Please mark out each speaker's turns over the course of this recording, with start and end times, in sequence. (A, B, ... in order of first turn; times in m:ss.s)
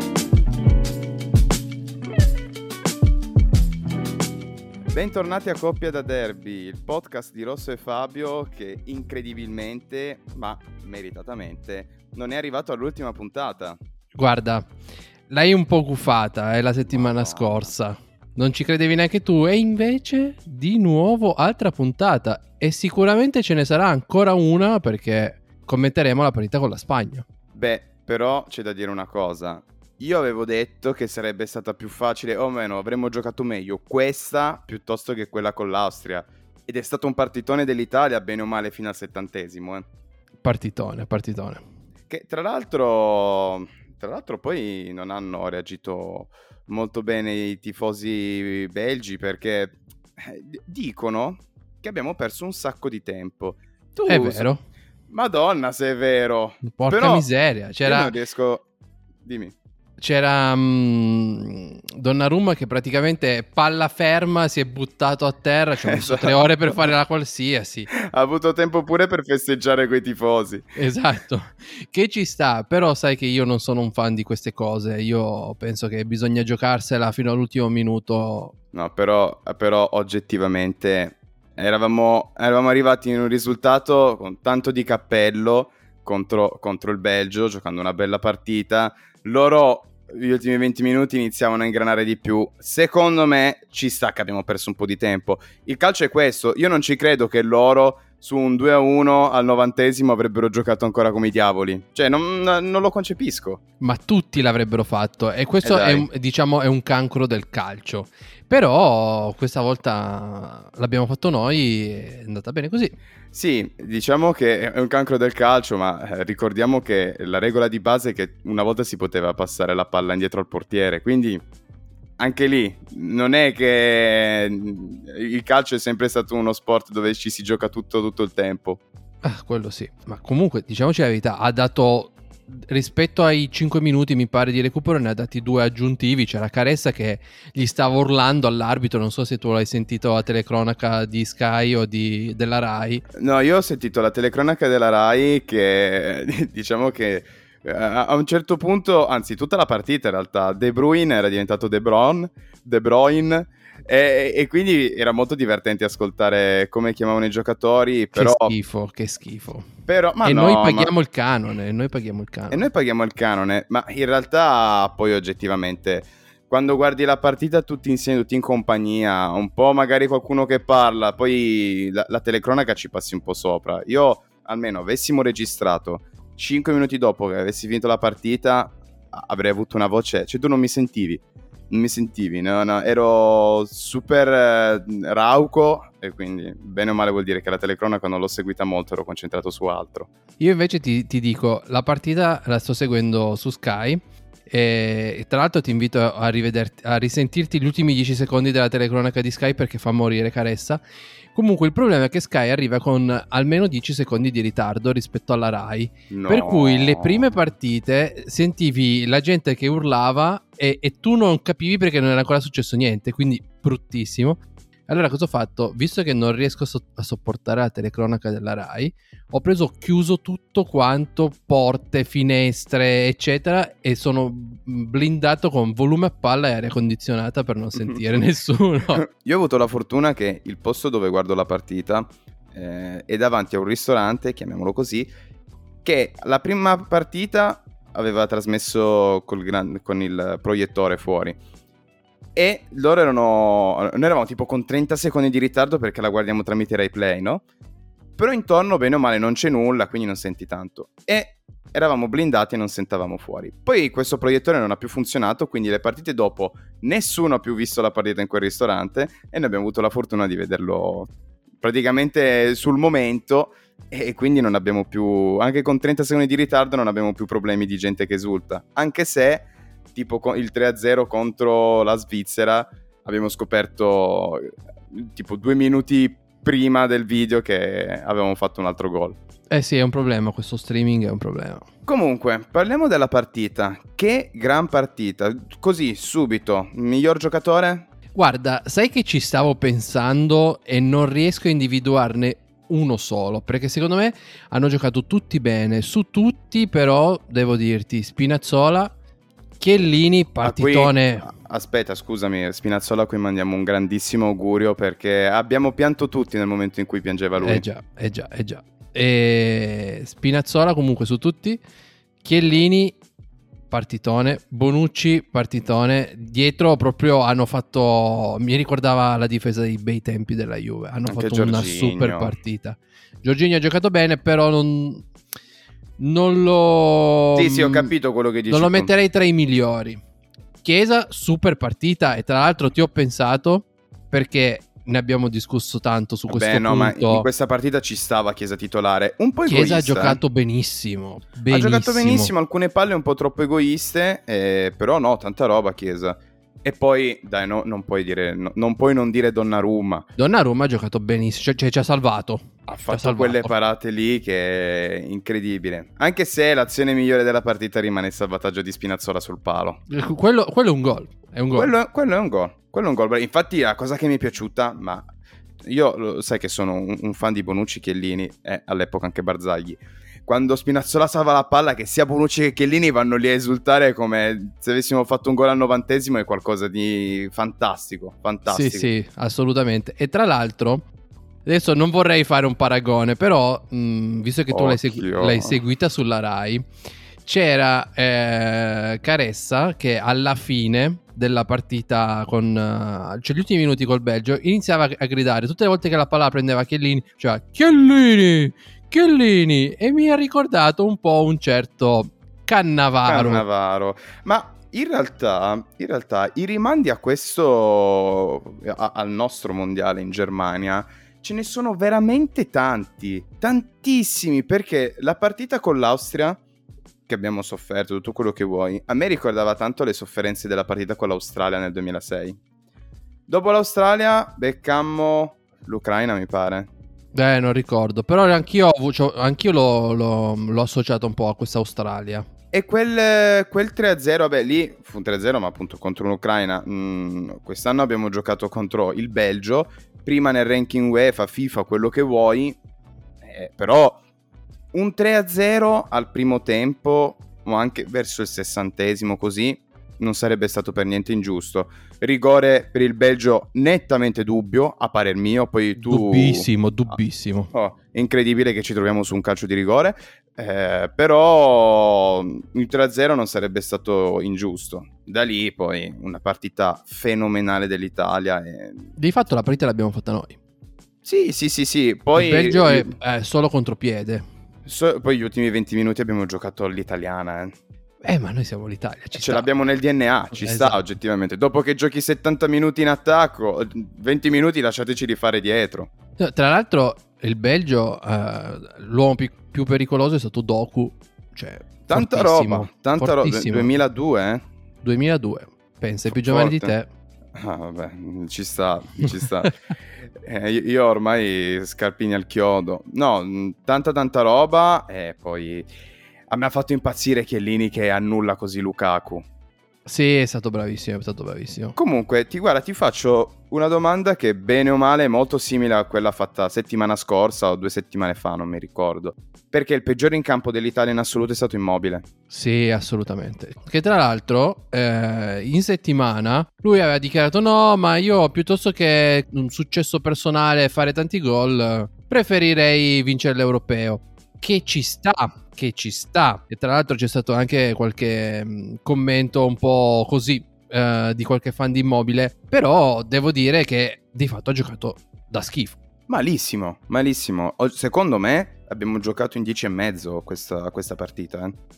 0:04.9-0:13.8 A
0:14.1-0:14.7 B
0:15.3-0:27.2 B
0:16.8-0:17.7 A
0:27.5-0:39.9 A
0:40.4-0:41.6 B
0:42.1-0:54.5 A
0:54.1-0:54.6 B
0:55.1-0:57.3 A
0:56.6-0:58.1 B
0:57.8-0:58.6 A
0:59.2-0:59.5 A
1:00.0-1:07.9 B
1:05.8-1:06.8 A
1:07.9-1:10.7 A
1:10.7-1:18.5 B
1:18.7-1:43.6 A
1:43.8-1:53.0 B
1:45.6-1:46.1 A
1:53.3-2:01.4 A
2:02.2-2:08.8 A
2:09.2-2:23.0 B
2:23.1-2:38.6 A
2:38.1-2:39.7 B
2:39.9-2:40.9 A
2:40.2-2:42.7 B
2:42.5-3:10.1 A
3:10.4-3:20.8 B
3:21.3-3:49.0 B
3:26.1-3:27.4 A
3:47.8-3:48.2 A
3:48.9-3:55.1 A
3:55.8-4:01.4 A
4:02.3-4:07.4 A
4:08.2-4:39.2 A
4:39.5-4:41.6 B
4:41.8-4:47.9 A
4:48.1-4:58.9 B
4:59.6-5:01.3 B
5:00.4-5:07.6 A
5:07.4-5:11.6 B
5:12.2-5:13.0 B
5:13.7-5:25.0 B
5:21.1-5:22.4 A
5:26.0-5:27.9 B
5:27.3-5:28.9 A
5:28.5-5:30.0 B
5:30.6-5:37.3 B
5:36.3-5:40.2 A
5:39.4-5:42.3 B
5:41.5-5:50.1 A
5:50.2-5:53.5 B
5:52.7-5:59.8 A
5:59.9-6:01.7 B
6:01.5-6:05.1 A
6:05.6-6:18.9 A
6:18.4-6:20.8 B
6:21.4-6:26.6 B
6:24.5-6:25.6 A
6:27.2-6:43.4 B
6:43.1-6:56.4 A
6:57.1-7:02.4 A
7:03.3-7:06.7 A
7:07.1-7:12.3 B
7:12.5-7:22.6 A
7:23.2-7:24.0 A
7:24.7-7:37.0 A
7:35.8-7:37.5 B
7:37.5-7:48.9 A
7:49.0-7:50.4 B
7:51.0-7:52.9 A
7:52.1-7:54.2 B
7:54.6-7:57.5 A
7:58.0-7:59.5 B
7:59.1-8:05.9 A
8:00.3-8:00.8 B
8:06.2-8:13.8 B
8:11.9-8:14.4 A
8:14.8-8:16.9 B
8:16.1-8:16.7 A
8:17.4-8:25.7 A
8:26.3-8:29.2 A
8:29.8-8:31.8 B
8:31.8-8:42.0 A
8:42.3-9:05.8 B
9:06.1-9:11.6 A